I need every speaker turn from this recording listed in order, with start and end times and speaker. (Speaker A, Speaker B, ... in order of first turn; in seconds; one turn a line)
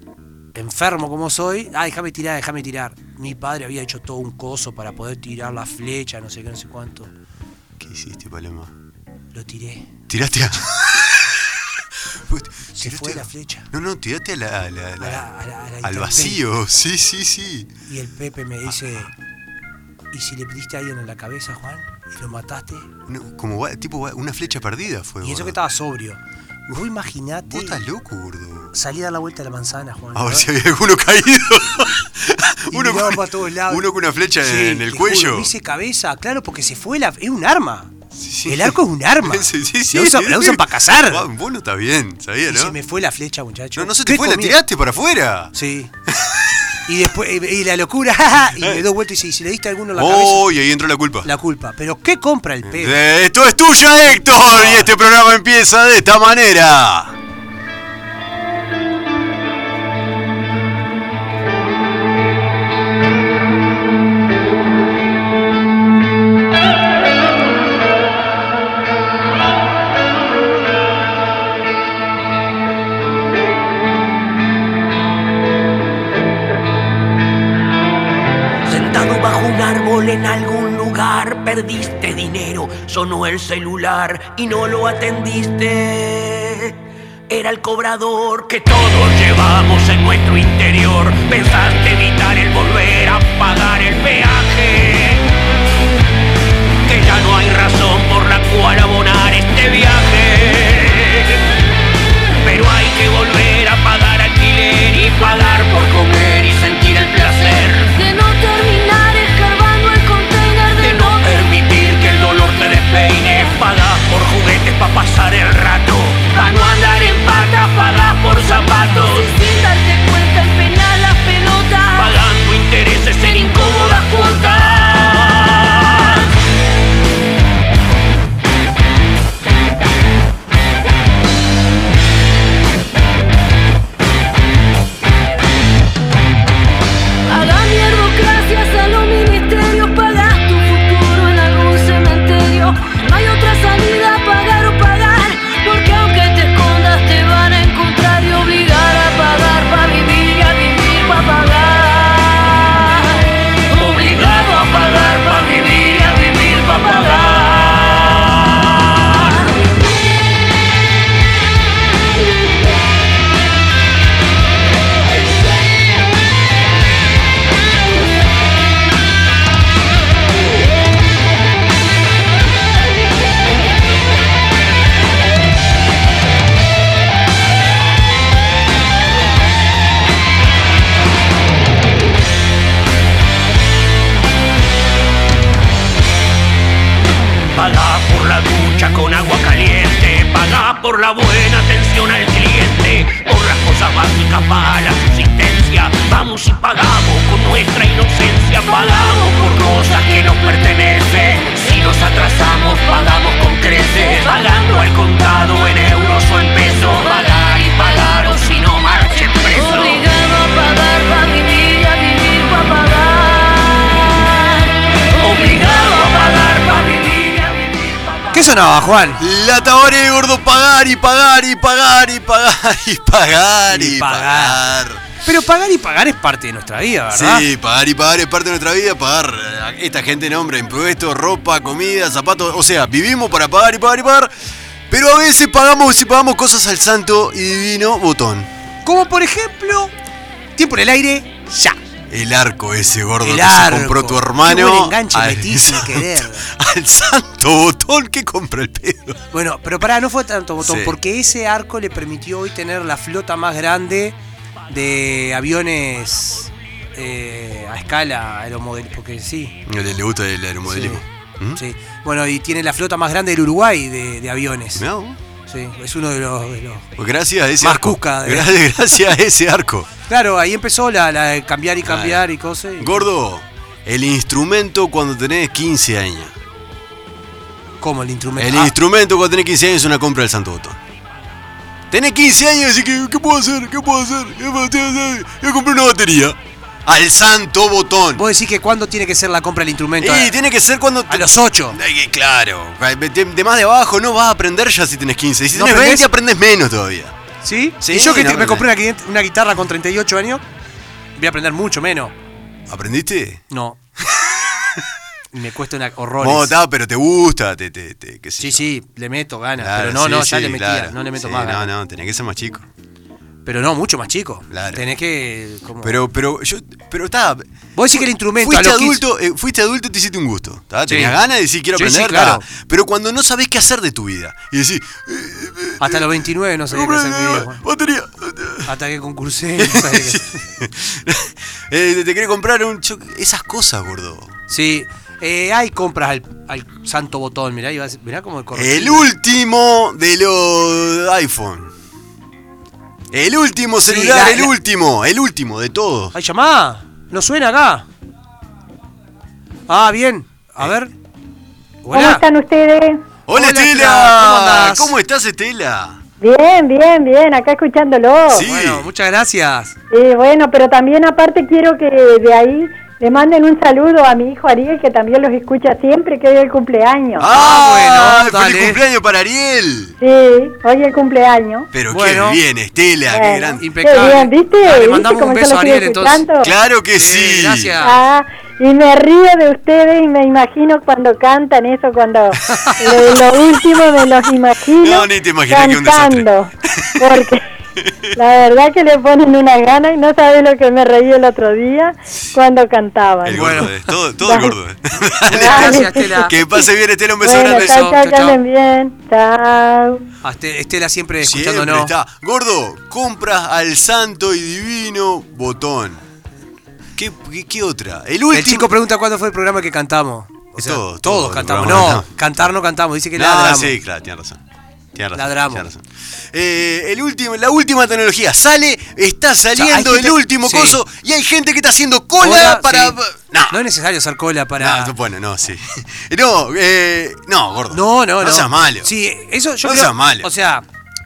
Speaker A: 0.5-7.1
Speaker B: 7.8-8.7
Speaker A: 9.3-9.9
Speaker B: 10.1-15.3
Speaker A: 12.7-13.7
Speaker A: 15.0-16.4
Speaker B: 15.8-17.7
Speaker A: 17.9-19.1
Speaker A: 20.1-22.9
Speaker B: 23.1-25.6
Speaker A: 25.2-27.8
Speaker B: 27.5-28.7
Speaker A: 28.7-30.5
Speaker B: 30.1-35.5
Speaker A: 32.7-33.9
Speaker A: 34.4-37.9
Speaker B: 38.1-42.8
Speaker A: 38.5-41.3
Speaker A: 42.5-44.6
Speaker B: 43.8-45.5
Speaker A: 45.5-45.9
Speaker B: 46.1-46.6
Speaker A: 46.9-50.5
Speaker B: 48.6-48.8
Speaker B: 49.9-51.3
Speaker A: 51.2-53.0
Speaker B: 52.6-57.1
Speaker A: 54.3-54.9
Speaker C: 78.7-86.8
Speaker C: 87.3-95.2
Speaker C: 96.8-101.4
Speaker C: 102.4-107.9
Speaker D: 107.8-111.4
Speaker C: 110.8-119.4
Speaker D: 118.6-122.2
Speaker C: 121.9-126.2
Speaker D: 123.3-124.3
Speaker D: 137.3-157.6
Speaker C: 153.8-158.2
Speaker C: 187.5-210.0
Speaker D: 199.0-199.6
Speaker D: 207.1-208.4
Speaker D: 209.5-214.7
Speaker C: 215.1-217.8
Speaker A: 218.3-219.2
Speaker B: 219.2-225.0
Speaker A: 223.7-224.7
Speaker A: 225.2-227.5
Speaker B: 227.1-234.3
Speaker B: 234.9-238.5
Speaker A: 238.8-239.9
Speaker A: 240.6-241.8
Speaker B: 242.1-249.2
Speaker A: 243.2-246.5
Speaker A: 249.3-254.2
Speaker B: 250.6-251.0
Speaker A: 254.7-259.6
Speaker B: 259.6-261.6
Speaker A: 260.6-261.0
Speaker A: 261.5-264.9
Speaker B: 264.8-265.2
Speaker A: 265.5-266.9
Speaker B: 267.0-269.9
Speaker A: 267.6-268.6
Speaker A: 270.1-273.1
Speaker B: 271.8-272.2
Speaker B: 272.8-276.3
Speaker A: 277.8-278.7
Speaker B: 278.4-280.8
Speaker B: 281.9-288.2
Speaker A: 288.1-290.4
Speaker B: 290.0-297.1
Speaker A: 291.1-291.8
Speaker A: 295.5-296.1
Speaker A: 297.4-300.4
Speaker B: 297.8-298.7
Speaker A: 301.2-302.1
Speaker B: 302.7-303.4
Speaker A: 303.5-303.8
Speaker B: 304.2-304.8
Speaker A: 305.3-306.5
Speaker B: 306.2-308.7
Speaker A: 308.4-311.7
Speaker B: 309.6-312.7
Speaker A: 313.4-316.0
Speaker B: 314.5-314.8
Speaker B: 315.8-328.7
Speaker A: 317.8-319.0
Speaker A: 320.9-321.2
Speaker A: 321.7-322.4
Speaker A: 325.8-327.6
Speaker A: 328.6-330.4
Speaker B: 329.6-334.3
Speaker A: 334.5-339.1
Speaker B: 338.5-341.7
Speaker B: 343.1-346.1
Speaker A: 343.8-344.5
Speaker A: 346.1-347.9
Speaker A: 349.7-350.9
Speaker A: 351.8-352.2
Speaker E: 351.9-353.0
Speaker B: 353.3-356.0
Speaker A: 353.3-354.9
Speaker E: 356.2-358.5
Speaker B: 358.3-358.9
Speaker A: 358.3-359.7
Speaker E: 359.9-367.3
Speaker B: 367.2-369.9
Speaker A: 367.3-368.8
Speaker E: 370.0-371.7
Speaker B: 371.7-374.1
Speaker A: 371.9-372.4
Speaker E: 373.1-376.5
Speaker A: 373.6-376.2
Speaker B: 376.4-377.7
Speaker A: 376.9-378.0
Speaker E: 377.8-387.4
Speaker A: 382.4-382.9
Speaker B: 384.8-387.2
Speaker B: 387.8-388.1
Speaker E: 388.2-393.7
Speaker B: 393.2-398.0
Speaker A: 393.3-393.9
Speaker E: 394.2-394.6
Speaker A: 395.3-396.4
Speaker E: 395.3-396.7
Speaker E: 397.2-400.0
Speaker A: 397.3-398.4
Speaker A: 400.2-401.9
Speaker B: 401.2-406.0
Speaker B: 407.0-408.7
Speaker A: 408.3-413.8
Speaker B: 410.6-412.1
Speaker B: 413.1-414.4
Speaker B: 414.9-423.6
Speaker A: 415.1-415.7
Speaker A: 419.5-420.8
Speaker A: 422.2-423.0
Speaker A: 423.5-424.9
Speaker B: 424.6-428.9
Speaker A: 427.7-430.6
Speaker B: 429.6-430.3